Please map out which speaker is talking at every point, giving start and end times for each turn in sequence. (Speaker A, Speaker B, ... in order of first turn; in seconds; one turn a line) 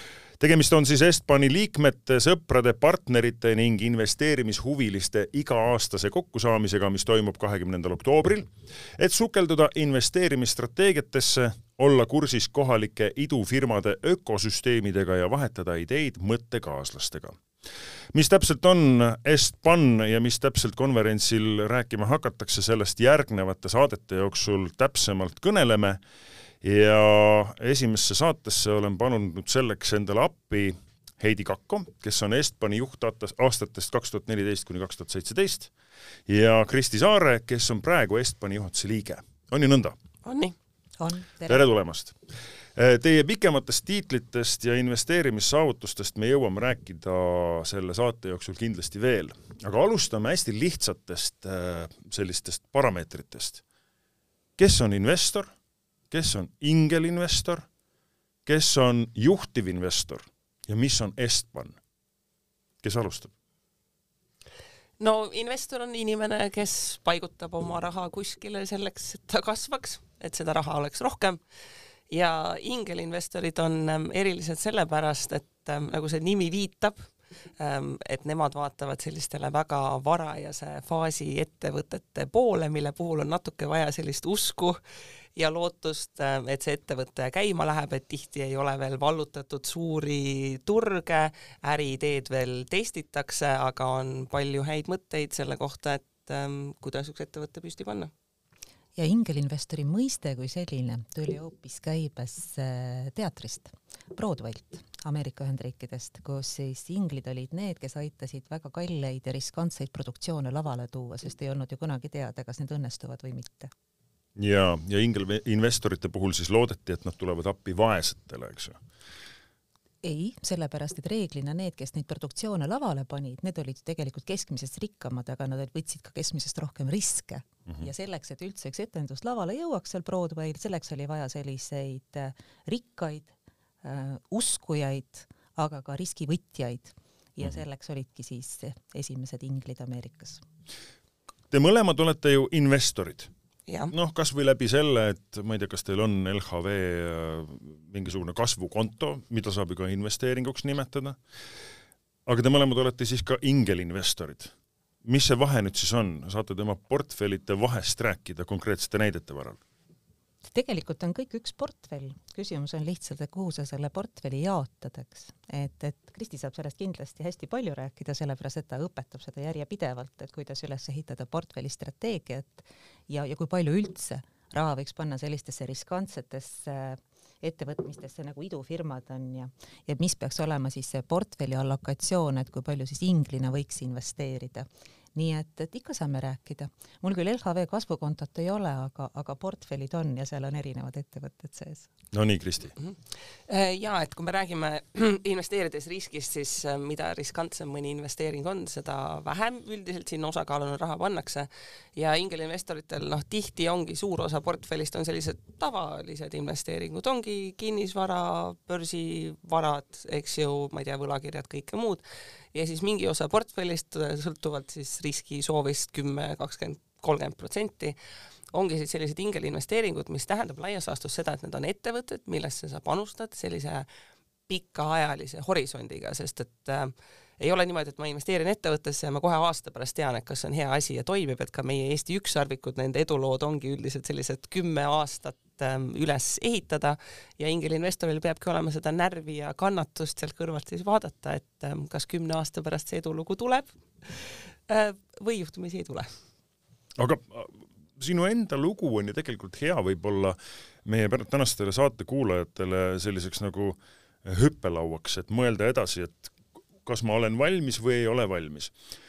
Speaker A: 0.4-17.4
Speaker A: 18.1-26.0
Speaker A: 26.6-35.7
Speaker A: 36.3-40.0
Speaker B: 40.2-40.5
Speaker C: 41.0-41.6
Speaker A: 41.4-42.2
Speaker A: 42.7-53.6
Speaker A: 54.6-55.5
Speaker A: 56.1-57.6
Speaker A: 58.5-61.8
Speaker A: 62.8-63.3
Speaker B: 65.0-71.4
Speaker B: 72.1-84.8
Speaker B: 85.3-98.1
Speaker C: 99.0-113.7
Speaker A: 114.3-118.8
Speaker C: 120.0-140.4
Speaker A: 141.5-143.3
Speaker B: 143.7-143.9
Speaker A: 143.9-151.2
Speaker A: 152.2-154.5
Speaker A: 155.0-159.6
Speaker C: 160.4-191.9
Speaker A: 192.1-192.7
Speaker B: 193.5-217.9
Speaker B: 218.5-223.9
Speaker B: 224.5-246.1
Speaker A: 247.0-256.3
Speaker A: 256.8-258.7